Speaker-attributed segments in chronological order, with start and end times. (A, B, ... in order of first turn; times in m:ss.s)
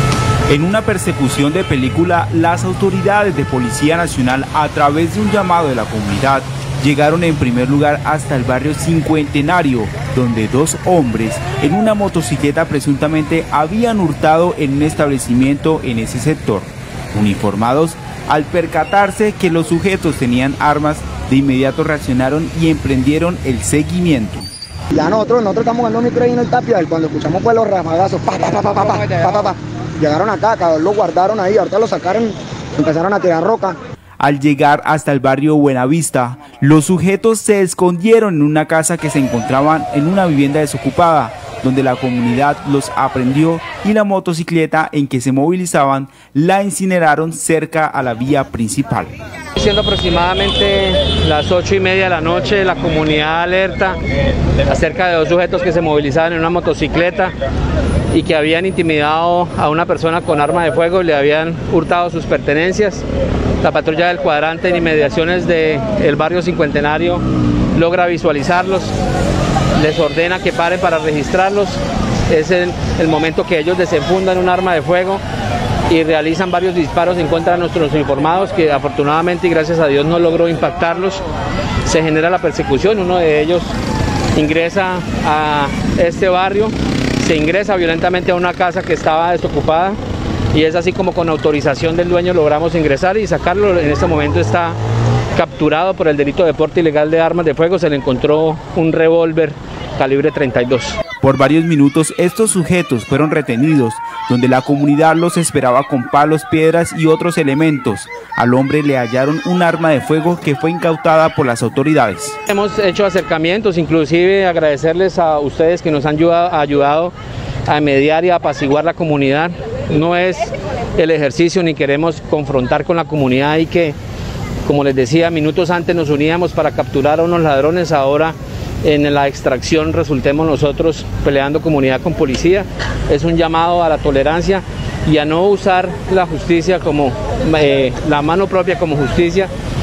0:00.5-0:24.5 A
0:24.9-0:33.8 B
0:34.2-0:49.1 A
0:49.6-0:54.0 C
0:54.6-0:57.3 C
0:58.1-1:03.0 C
1:03.6-1:08.9 C
1:09.8-1:15.2 C
1:15.9-1:21.2 C
1:21.8-1:23.7 C
1:24.3-1:30.0 C
1:30.5-1:34.8 C
1:35.3-1:41.0 C
1:41.2-1:52.4 A
1:52.5-1:57.1 C
1:57.7-2:04.0 C
2:04.6-2:19.5 C